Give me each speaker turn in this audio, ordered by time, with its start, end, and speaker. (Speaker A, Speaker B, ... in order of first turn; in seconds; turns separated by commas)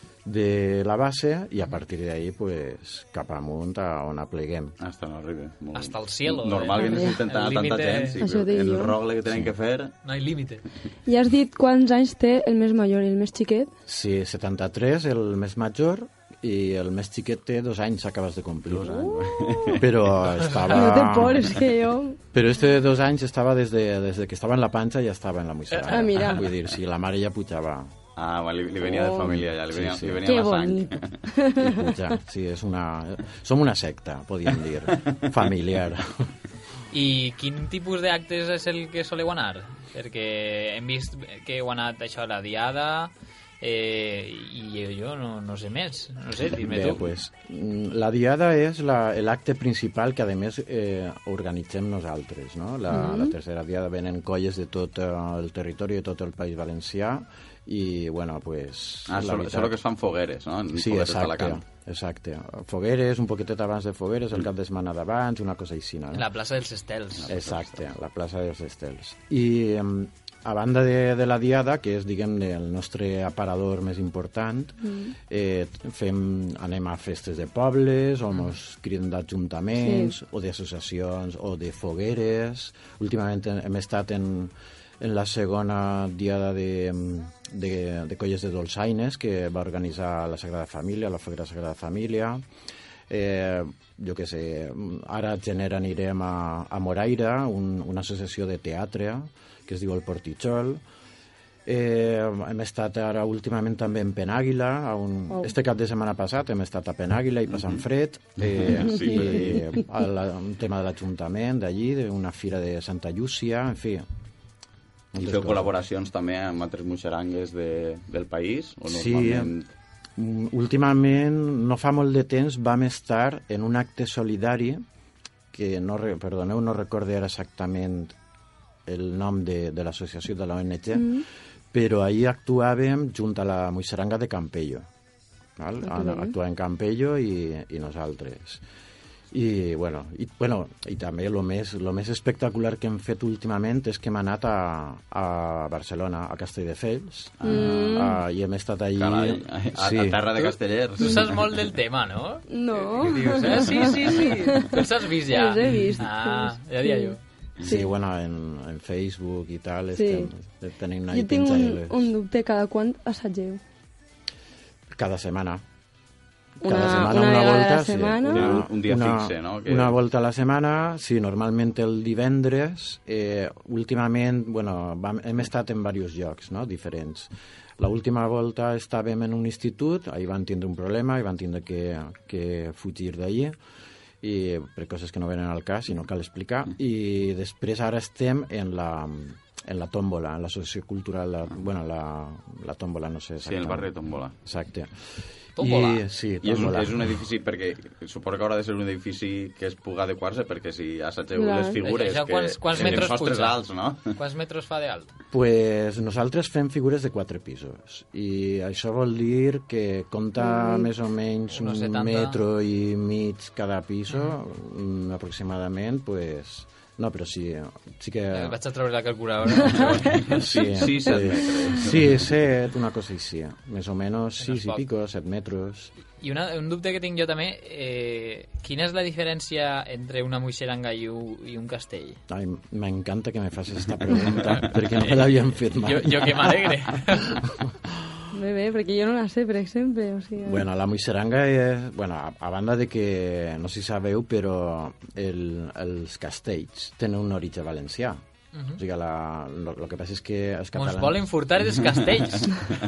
Speaker A: 0.2-4.8, Speaker B: 4.8-9.9, Speaker C: 5.7-8.2, Speaker D: 6.8-7.2, Speaker D: 8.2-9.0, Speaker C: 10.0-10.6, Speaker D: 11.1-13.7, Speaker A: 13.8-19.1, Speaker B: 18.7-19.9, Speaker D: 19.5-19.8, Speaker A: 19.7-21.6, Speaker D: 20.7-22.2, Speaker A: 22.3-27.9, Speaker C: 25.7-26.1, Speaker D: 25.9-26.4, Speaker B: 28.1-31.2, Speaker D: 28.8-29.4, Speaker A: 29.7-30.3, Speaker D: 30.2-31.9, Speaker A: 31.6-36.3, Speaker C: 36.9-47.0, Speaker A: 46.6-59.8, Speaker D: 52.9-53.3, Speaker B: 59.1-61.6, Speaker A: 60.7-66.3, Speaker C: 66.1-67.3, Speaker B: 67.2-67.8, Speaker A: 67.3-92.4, Speaker D: 79.8-80.1, Speaker A: 93.1-100.8, Speaker A: 101.7-114.0, Speaker B: 108.4-109.6, Speaker A: 115.1-115.8, Speaker B: 115.2-119.7, Speaker A: 118.9-119.5, Speaker A: 120.2-124.8, Speaker A: 125.5-128.2, Speaker A: 128.8-134.8, Speaker D: 131.0-131.2, Speaker A: 135.6-138.6, Speaker D: 135.8-136.3, Speaker A: 139.3-150.3, Speaker B: 147.4-148.0, Speaker D: 147.4-148.2, Speaker B: 149.0-151.3, Speaker C: 150.4-157.2, Speaker D: 152.5-157.1, Speaker A: 157.6-162.1, Speaker D: 159.9-160.3, Speaker D: 161.1-163.6, Speaker A: 164.9-165.6, Speaker A: 166.6-183.6, Speaker D: 166.6-168.6, Speaker B: 168.2-170.0, Speaker A: 184.2-194.9, Speaker B: 193.4-194.3, Speaker C: 195.6-196.0, Speaker A: 195.6-197.1, Speaker B: 196.4-204.1, Speaker D: 201.3-201.8, Speaker C: 201.8-203.6, Speaker A: 202.8-203.1, Speaker C: 204.1-205.1, Speaker A: 205.3-218.6, Speaker D: 210.4-210.9, Speaker C: 211.5-212.4, Speaker C: 218.3-220.2, Speaker A: 219.7-225.9, Speaker B: 220.3-222.3, Speaker C: 224.4-224.8, Speaker C: 226.2-232.2, Speaker A: 232.3-238.2, Speaker C: 235.0-237.4, Speaker D: 238.3-240.6, Speaker A: 240.4-248.2, Speaker C: 248.5-248.8, Speaker A: 248.8-251.3, Speaker C: 250.8-252.6